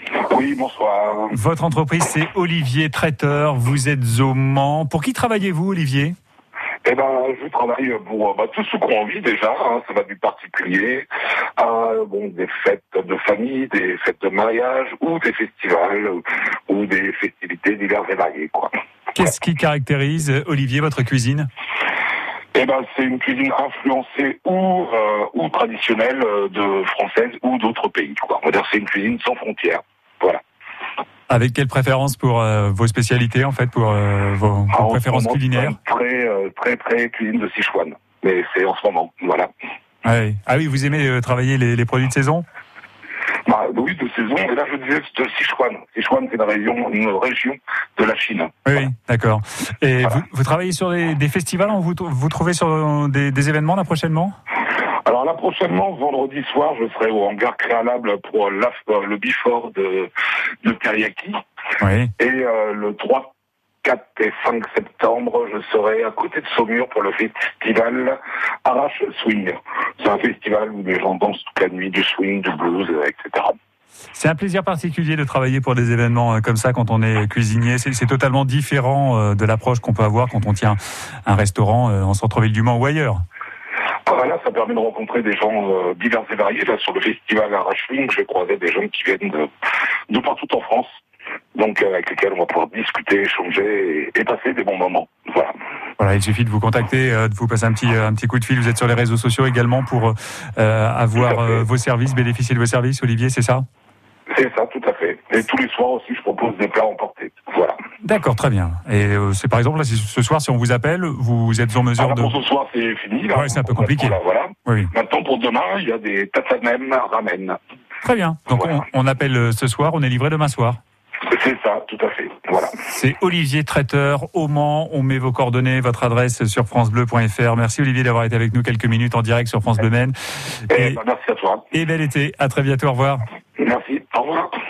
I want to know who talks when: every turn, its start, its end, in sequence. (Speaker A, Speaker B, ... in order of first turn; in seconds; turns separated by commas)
Speaker A: 0.3-1.4, Speaker B: 1.3-6.1, Speaker A: 6.8-18.7, Speaker B: 19.1-21.5, Speaker A: 22.5-30.4, Speaker B: 31.3-35.8, Speaker A: 34.7-39.5, Speaker B: 40.0-42.4, Speaker A: 43.5-48.6, Speaker B: 48.6-54.3, Speaker A: 55.0-60.1, Speaker A: 60.6-61.4, Speaker B: 61.8-62.1, Speaker A: 62.2-63.3, Speaker A: 63.8-73.5, Speaker B: 74.1-83.2, Speaker A: 84.0-89.5, Speaker A: 90.1-90.9, Speaker A: 91.5-95.5, Speaker B: 96.0-103.6, Speaker A: 101.2-101.6, Speaker A: 104.3-107.8, Speaker B: 108.0-112.3, Speaker A: 112.0-117.6, Speaker B: 113.3-114.9, Speaker B: 118.0-120.8, Speaker A: 121.2-122.8, Speaker B: 122.8-130.2, Speaker B: 130.7-131.0, Speaker A: 130.7-131.7, Speaker B: 131.7-133.2, Speaker A: 133.6-134.5